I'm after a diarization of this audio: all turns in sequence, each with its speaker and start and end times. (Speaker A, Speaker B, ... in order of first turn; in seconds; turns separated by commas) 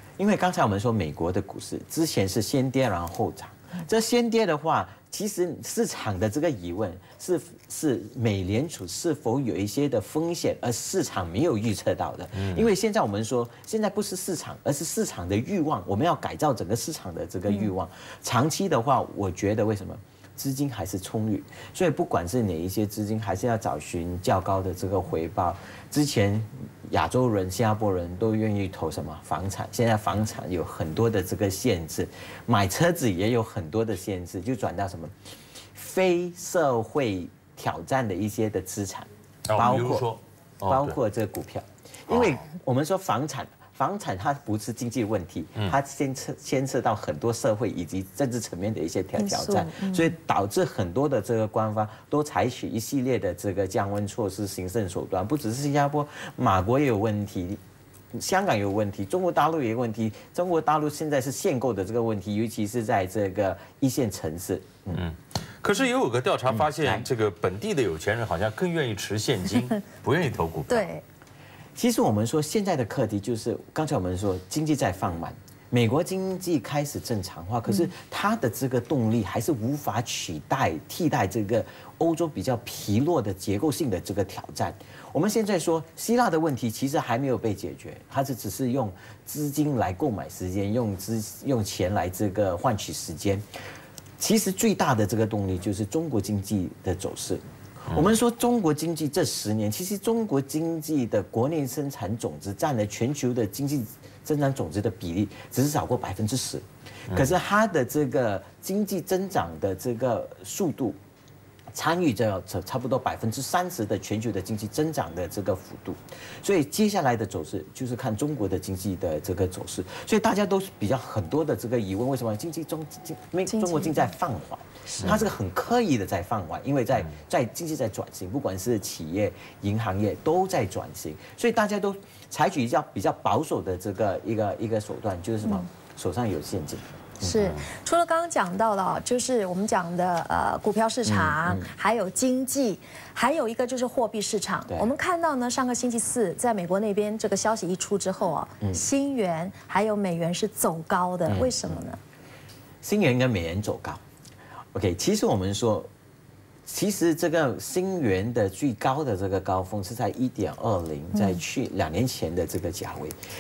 Speaker A: 0.2-35.1, Speaker B: 12.4-12.7, Speaker A: 35.7-40.1, Speaker B: 39.5-40.9, Speaker A: 40.7-57.6, Speaker B: 42.1-42.4, Speaker C: 49.2-50.1, Speaker A: 58.1-65.0, Speaker B: 64.9-70.9, Speaker A: 66.5-67.0, Speaker C: 70.7-71.0, Speaker A: 71.8-93.5, Speaker A: 94.2-111.0, Speaker A: 111.7-137.3, Speaker C: 123.5-124.0, Speaker C: 137.2-152.0, Speaker B: 137.3-137.6, Speaker A: 141.0-141.7, Speaker A: 151.3-151.8, Speaker A: 152.8-154.0, Speaker A: 154.7-155.9, Speaker A: 156.7-163.2